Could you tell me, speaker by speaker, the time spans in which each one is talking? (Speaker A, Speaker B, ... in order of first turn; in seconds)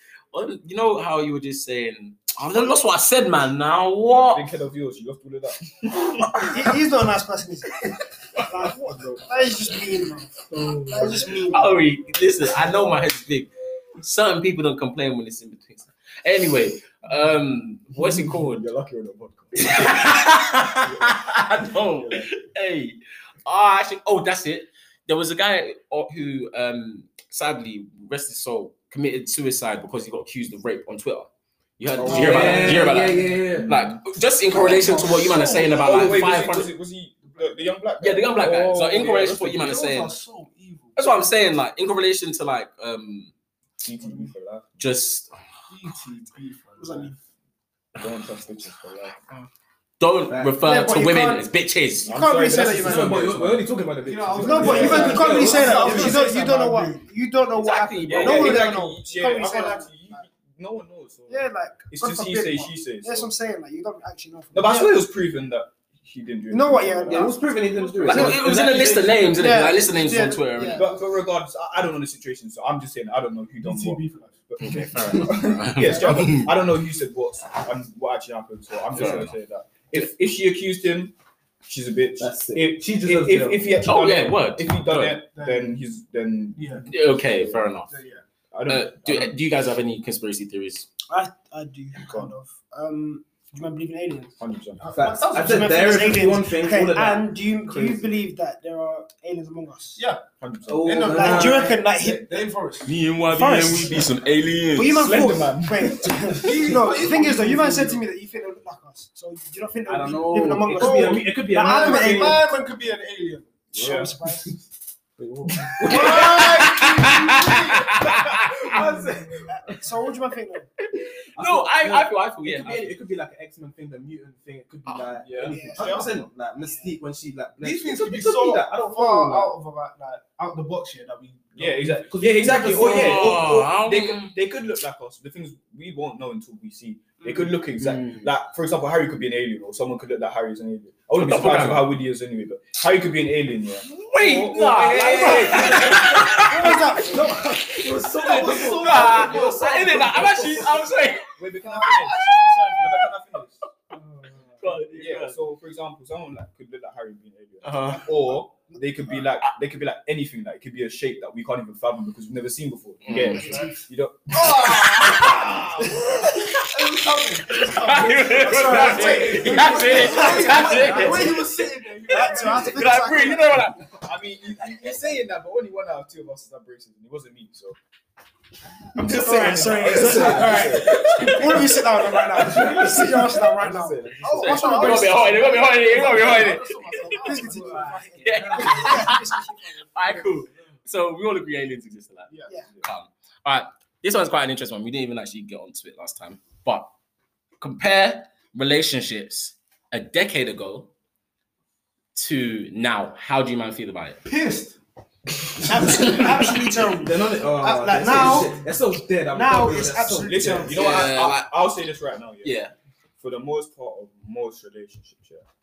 Speaker A: 0.3-4.5, 11.4-13.5, 14.0-18.7, 19.6-36.7, 38.0-40.1, 41.0-43.3, 44.8-45.3, 50.0-52.1, 57.5-58.6, 67.9-70.9, 74.6-76.5, 78.9-79.3, 83.8-85.2, 86.9-87.9, 88.7-90.9, 102.8-105.1, 116.0-118.7, 120.8-122.9, 132.7-134.3, 141.1-141.9, 143.9-147.0, 148.2-151.4, 151.9-152.7, 154.6-155.4, 157.6-158.1, 163.1-163.5, 164.5-173.8, 184.3-187.2, 188.2-189.4, 189.9-196.9, 197.6-200.9, 202.1-204.2, 210.7-211.5, 212.4-212.7
Speaker B: 4.2-6.5, 8.5-9.2, 17.9-20.0, 20.8-22.3, 31.9-32.9, 33.5-34.0, 35.8-39.4, 43.8-44.9, 48.0-49.2, 52.0-53.6, 54.6-55.4, 58.0-63.3, 64.5-67.4, 68.0-68.4, 70.7-81.1, 81.6-87.7, 88.5-89.3, 92.0-92.3, 94.4-94.8, 100.4-101.1, 104.7-106.5, 113.7-114.1, 125.2-126.1, 131.6-146.5, 151.4-153.6, 154.9-166.1, 169.5-171.1, 174.0-177.8, 178.9-181.6, 182.5-185.4, 207.6-208.5, 210.2-212.6, 213.2-215.5
Speaker C: 6.4-11.7, 46.8-47.1, 50.6-51.5, 52.1-53.3, 54.4-60.2, 61.3-65.0, 66.5-67.5, 69.4-70.9, 91.1-94.3, 94.9-100.0, 101.1-102.5, 103.3-104.1, 104.7-112.6, 113.7-114.6, 119.5-120.7, 125.5-126.1, 126.6-126.9, 128.7-130.0, 146.3-147.6, 163.3-163.8, 168.3-171.4, 172.1-173.6, 178.9-185.4, 187.1-189.9, 205.6-208.5, 209.3-211.0
Speaker D: 10.5-11.4, 32.0-33.7, 38.9-39.3, 50.3-50.5, 52.7-56.2, 67.1-69.7, 82.2-83.8, 94.9-98.0, 100.7-101.8, 109.8-112.5, 113.8-114.5, 115.2-119.8, 121.3-129.5, 132.1-133.4, 137.8-138.3, 144.3-150.9, 179.8-181.3, 182.3-183.4, 187.5-189.0, 206.9-210.7
Speaker E: 32.1-33.0, 34.5-36.4, 37.2-37.6, 39.1-41.3, 44.0-44.3, 45.7-47.2, 54.0-57.1, 73.6-74.4, 85.3-85.7, 86.5-86.9, 87.9-88.2, 94.8-95.9, 100.0-100.2, 100.8-103.0, 106.3-108.0, 110.7-113.8, 115.7-118.1, 118.7-119.6, 127.6-128.7, 129.6-132.8, 148.2-149.9, 151.8-153.0, 154.0-154.7, 163.4-163.7, 164.5-165.4, 166.0-173.1, 184.2-189.1, 204.2-204.8